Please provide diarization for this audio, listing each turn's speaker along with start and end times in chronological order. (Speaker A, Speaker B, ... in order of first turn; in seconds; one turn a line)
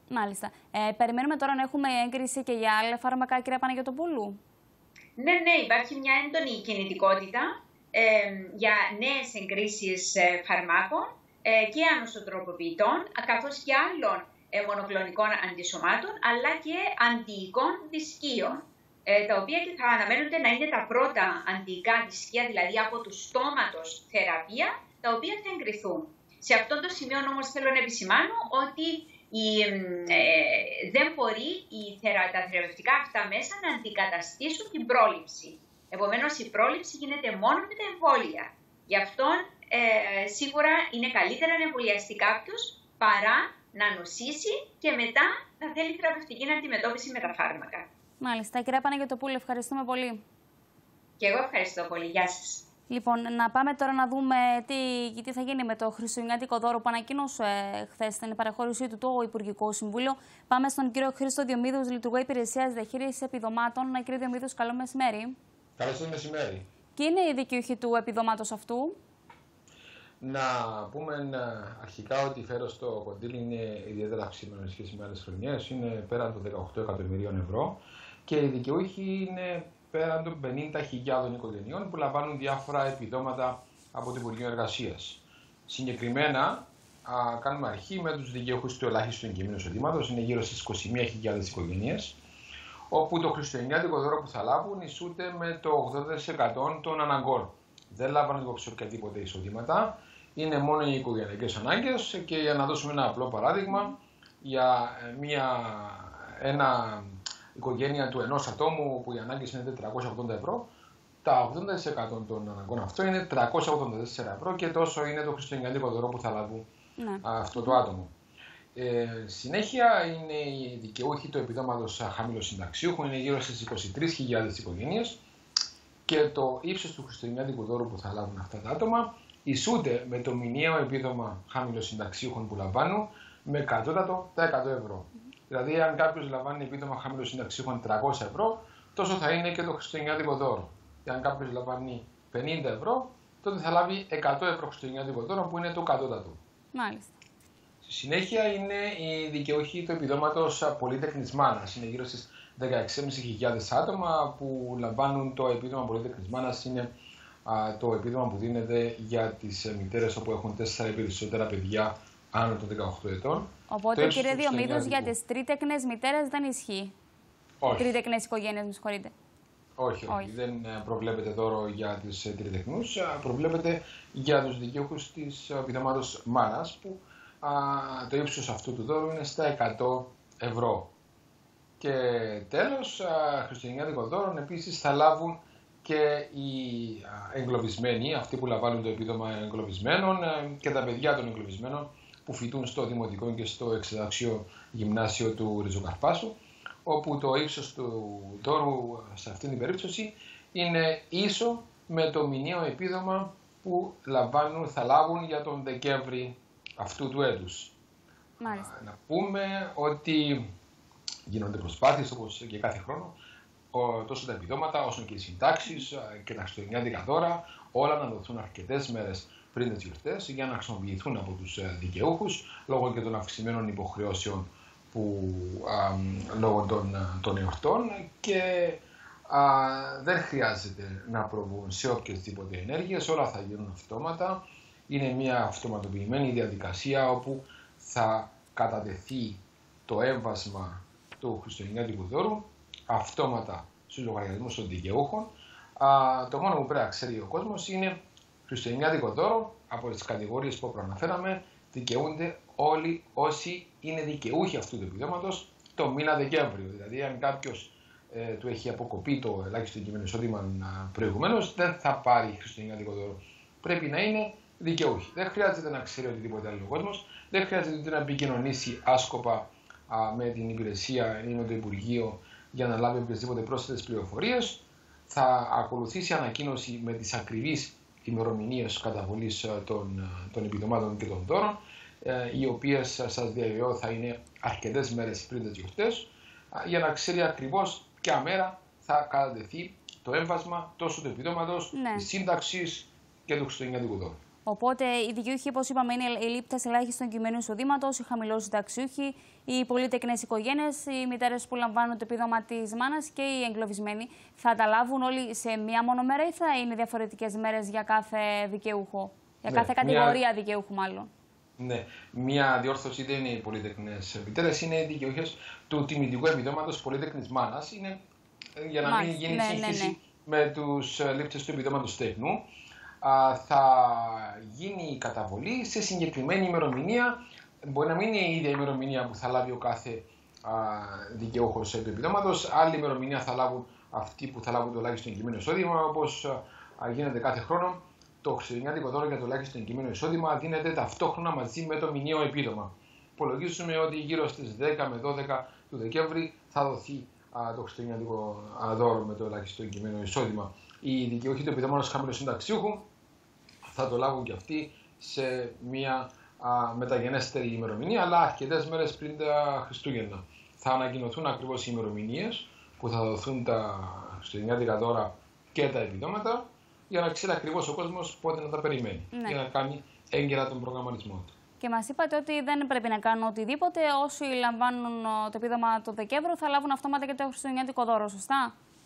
Speaker A: 0.1-4.4
Speaker B: 5.2-47.9
Speaker A: 48.2-50.2
Speaker B: 51.2-52.6
Speaker A: 52.9-65.3
Speaker C: 65.8-66.6
Speaker A: 67.0-69.0
Speaker C: 70.2-92.2
Speaker C: 92.9-110.7
Speaker C: 111.2-116.7
Speaker A: 117.0-117.8
Speaker C: 117.2-118.1
Speaker C: 118.8-125.2
Speaker C: 126.0-146.4
Speaker A: 146.7-147.1
Speaker C: 147.8-156.9
Speaker C: 157.5-165.1
Speaker A: 163.7-166.9
Speaker C: 167.6-167.9
Speaker A: 167.7-169.1
Speaker C: 169.8-180.9
Speaker C: 181.8-207.7
Speaker A: 208.4-208.7
Speaker C: 208.4-210.5
Speaker C: 211.3-213.1
Speaker C: 213.7-294.2
Speaker A: 291.7-292.1
Speaker A: 294.4-311.1
Speaker C: 309.5-310.2
Speaker C: 311.6-318.0
Speaker C: 318.6-322.5
Speaker A: 318.8-320.0
Speaker C: 323.0-352.9
Speaker C: 353.6-371.3
Speaker A: 369.1-369.4
Speaker A: 371.6-378.5